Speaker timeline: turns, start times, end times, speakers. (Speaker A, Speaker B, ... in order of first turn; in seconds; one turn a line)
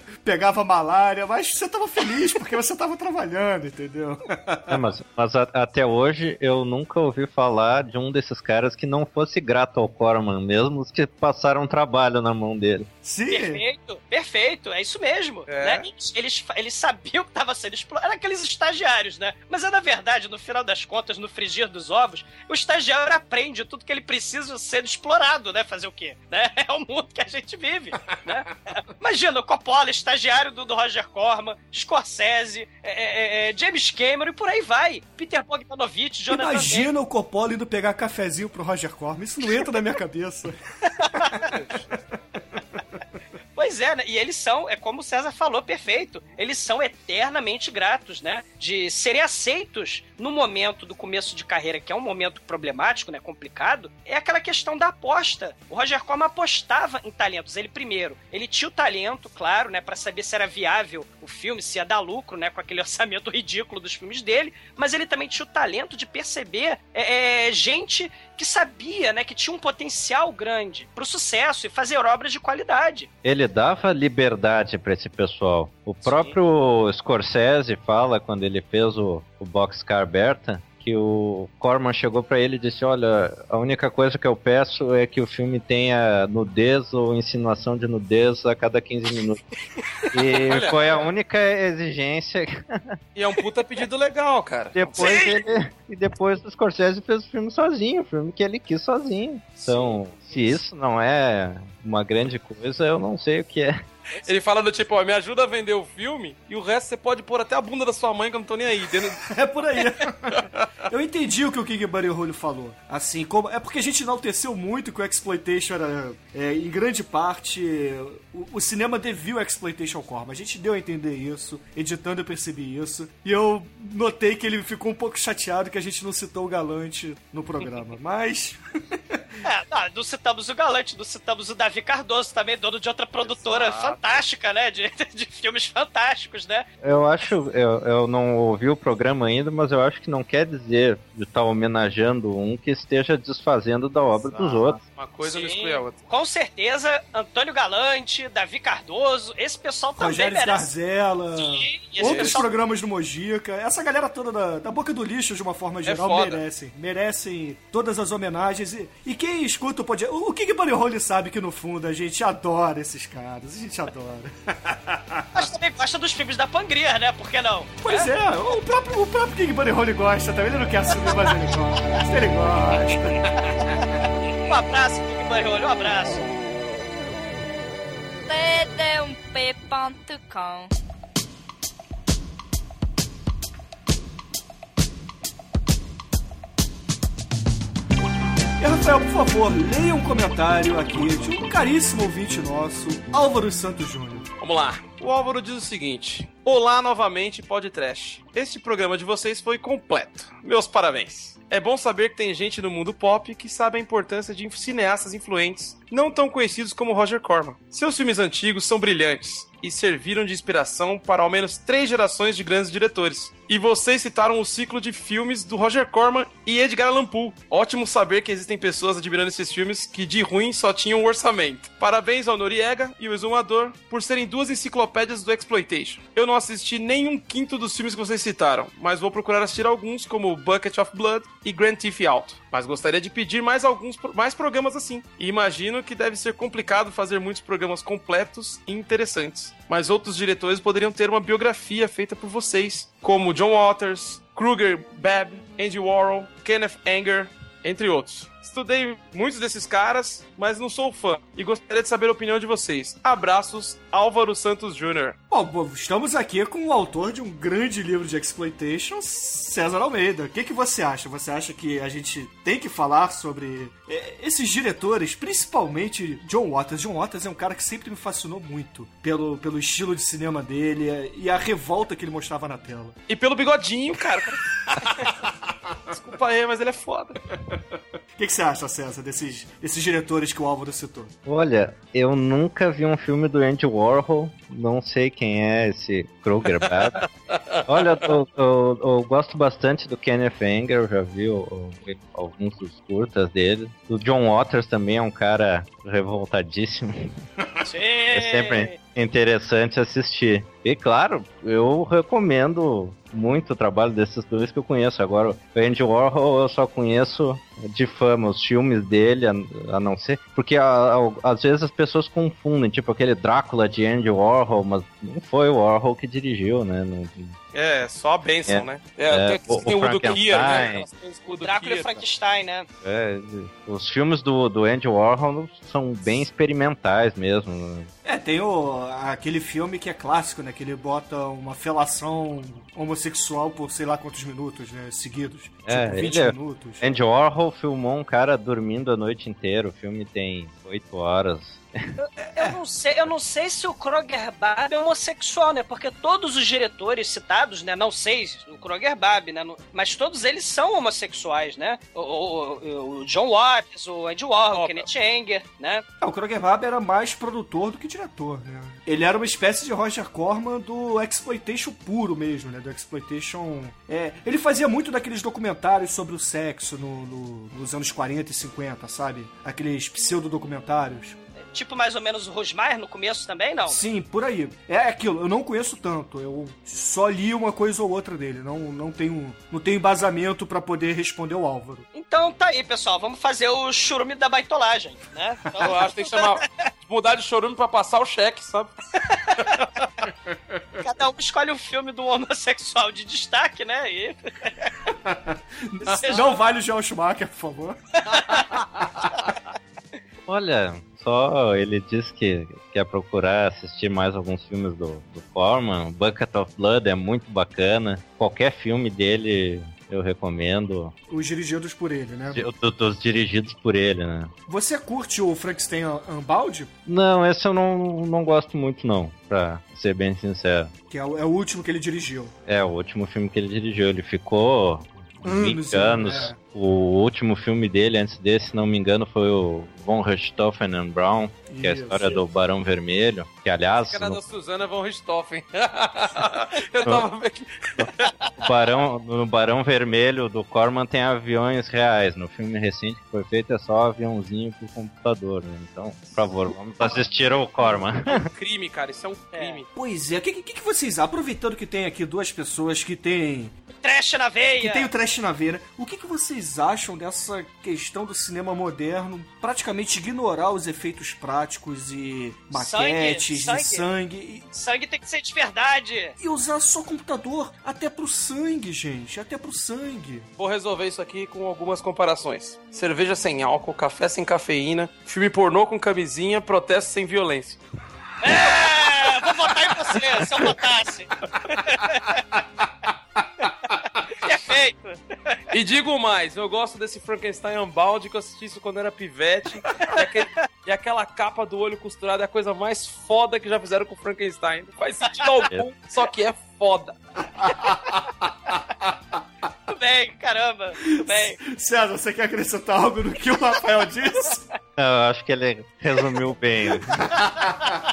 Speaker A: 0.2-4.8
Speaker B: 4.7-12.9
Speaker A: 13.0-13.6
Speaker C: 13.3-36.9
Speaker D: 15.5-15.8
Speaker A: 36.3-40.5
Speaker C: 41.0-41.5
Speaker A: 42.5-42.8
Speaker C: 43.5-73.1
Speaker B: 73.2-89.5
Speaker C: 76.0-76.3
Speaker B: 90.1-93.0
Speaker D: 90.5-90.9
Speaker D: 93.1-95.2
Speaker B: 94.7-103.8
Speaker C: 95.0-95.3
Speaker D: 99.6-100.0
Speaker D: 104.2-109.2
Speaker A: 109.2-129.2
Speaker C: 129.4-136.7
Speaker D: 133.3-133.9
Speaker B: 136.8-144.8
Speaker D: 144.2-146.0
Speaker C: 145.2-150.7
Speaker A: 150.0-165.5
Speaker C: 151.3-152.5
Speaker D: 152.0-152.4
Speaker D: 155.8-156.4
Speaker C: 165.3-168.1
Speaker A: 167.8-173.8
Speaker C: 174.4-176.2
Speaker E: 178.2-180.7
Speaker A: 188.6-194.3
Speaker D: 194.4-255.2
Speaker A: 255.3-273.0
Speaker D: 273.1-275.1
Speaker D: 275.9-277.2
Speaker A: 278.1-281.1
Speaker B: 281.2-287.1
Speaker D: 287.3-287.6
Speaker B: 287.6-297.1
Speaker C: 297.6-298.8
Speaker B: 298.1-317.4
Speaker D: 317.5-322.0
Speaker B: 318.5-320.9
Speaker C: 321.4-322.7
Speaker B: 322.8-327.9
Speaker A: 328.0-336.9
Speaker B: 335.7-341.6
Speaker C: 342.0-355.8
Speaker D: 354.5-354.9
Speaker A: 356.0-371.2
Speaker C: 371.5-373.8
Speaker A: 373.6-381.9
Speaker C: 381.9-386.4
Speaker D: 385.6-388.7
Speaker C: 389.1-389.6
Speaker C: 390.8-394.7
Speaker A: 395.0-398.8
Speaker C: 395.9-396.4
Speaker C: 398.1-398.4
Speaker B: 400.3-410.9
Speaker A: 411.1-412.4
Speaker B: 412.3-414.3
Speaker A: 414.5-416.7
Speaker B: 416.9-420.7
Speaker A: 420.9-422.3
Speaker B: 422.4-434.2
Speaker A: 425.2-426.4
Speaker A: 431.5-432.2
Speaker D: 433.7-438.1
Speaker B: 437.8-448.2
Speaker D: 448.1-449.7
Speaker C: 449.3-449.6
Speaker A: 449.7-453.5
Speaker C: 453.8-454.9
Speaker A: 454.6-464.5
Speaker C: 462.5-463.9
Speaker C: 464.5-466.1
Speaker A: 466.2-470.3
Speaker D: 470.4-477.6
Speaker C: 478.2-482.2
Speaker C: 483.4-485.4
Speaker D: 485.5-496.9
Speaker A: 497.4-498.1
Speaker C: 499.7-501.4
Speaker A: 500.9-504.5
Speaker B: 504.8-507.2
Speaker A: 507.2-507.7